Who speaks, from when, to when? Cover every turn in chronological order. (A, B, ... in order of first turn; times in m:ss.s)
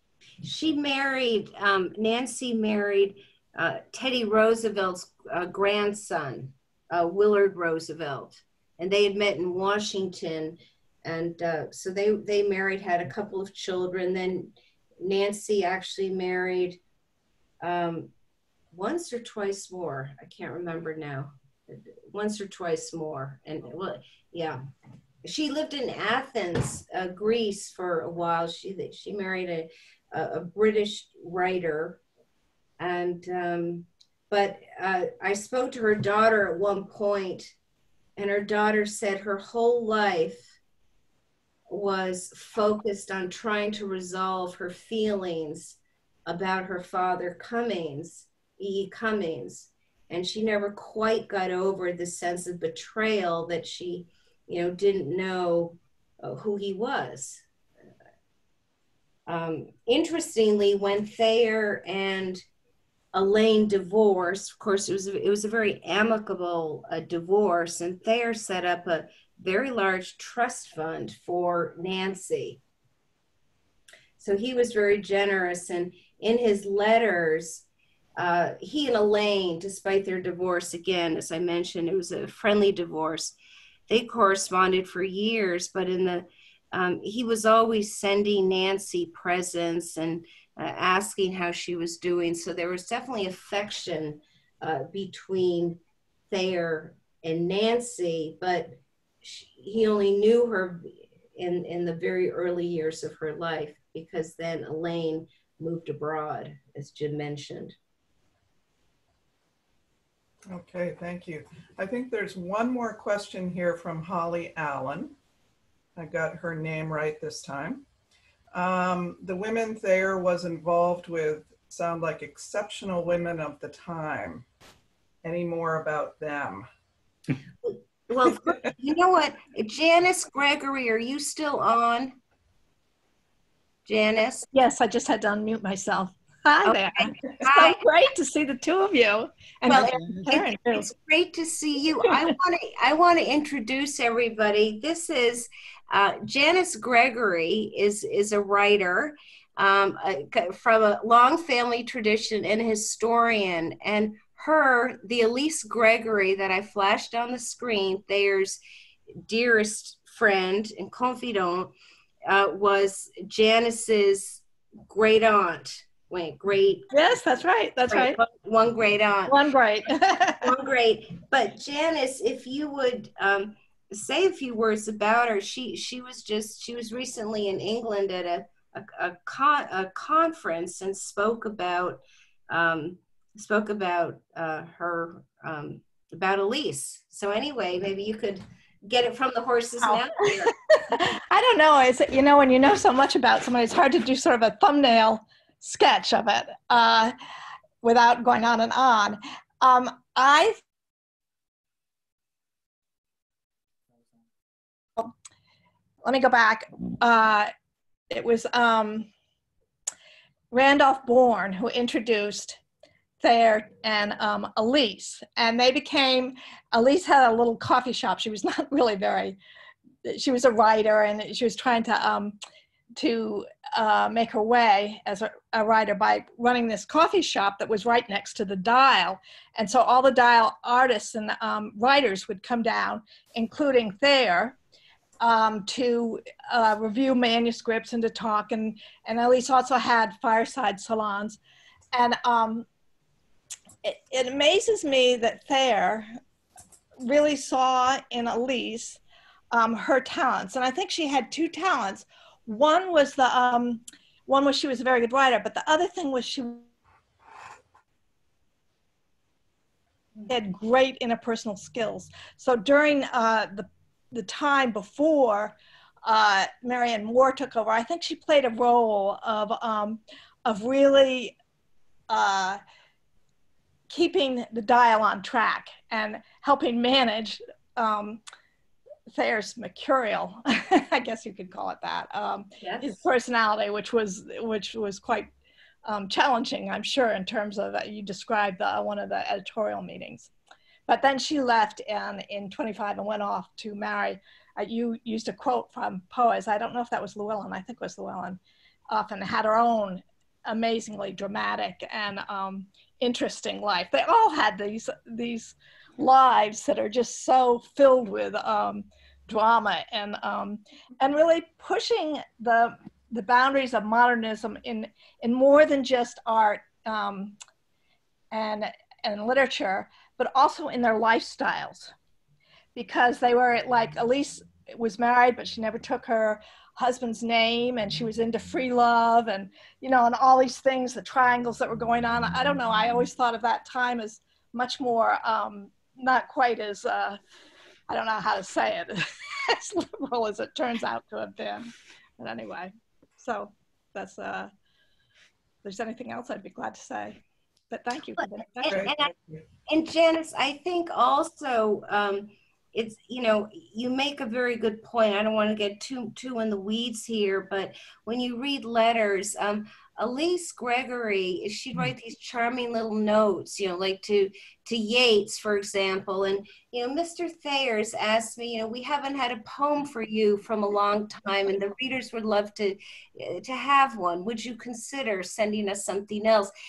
0:00.4-0:16.8 A
0:17.6-0:18.1 A
0:18.7-0:24.6 A
0:25.2-0:32.0 A
0:32.8-0:37.5 A
0:38.2-0:40.6 A
0:41.7-0:57.4 A
0:59.3-1:02.4 A
1:03.1-1:12.6 A
1:14.2-1:17.6 A
1:18.2-1:23.4 A
1:23.9-1:47.7 A
1:50.5-1:55.2 B
1:56.0-1:57.8 B
1:58.5-2:04.4 B
2:05.2-2:06.7 B
2:07.6-2:12.2 A
2:13.8-2:14.4 A
2:14.5-2:20.9 C
2:16.6-2:17.8 A
2:19.7-2:38.6 A
2:39.2-2:41.7 A
2:42.2-2:46.8 A
2:46.9-2:48.2 C
2:47.9-2:49.4 A
2:49.3-2:50.5 C
2:50.4-3:10.5 A
3:09.8-3:17.1 C
3:17.8-3:20.6 C
3:26.0-3:27.5 C
3:28.1-3:29.1 C
3:30.5-3:32.6 C
3:33.2-3:39.4 C
3:40.0-3:42.4 C
3:42.9-3:54.6 C
3:55.2-4:01.4 C
4:01.9-4:02.6 C
4:03.8-4:06.1 C
4:07.0-4:09.0 C
4:09.5-4:16.7 C
4:20.3-4:31.4 C
4:32.1-4:32.6 C
4:33.9-4:38.2 C
4:39.1-4:45.3 C
4:42.6-4:43.0 A
4:45.8-4:50.3 C
4:50.9-5:17.4 C
5:18.3-5:21.9 C
5:22.7-5:37.2 C
5:37.9-5:44.5 C
5:45.6-5:49.0 C
5:48.2-5:49.1 A
5:48.7-5:49.4 B
5:49.7-6:16.5 A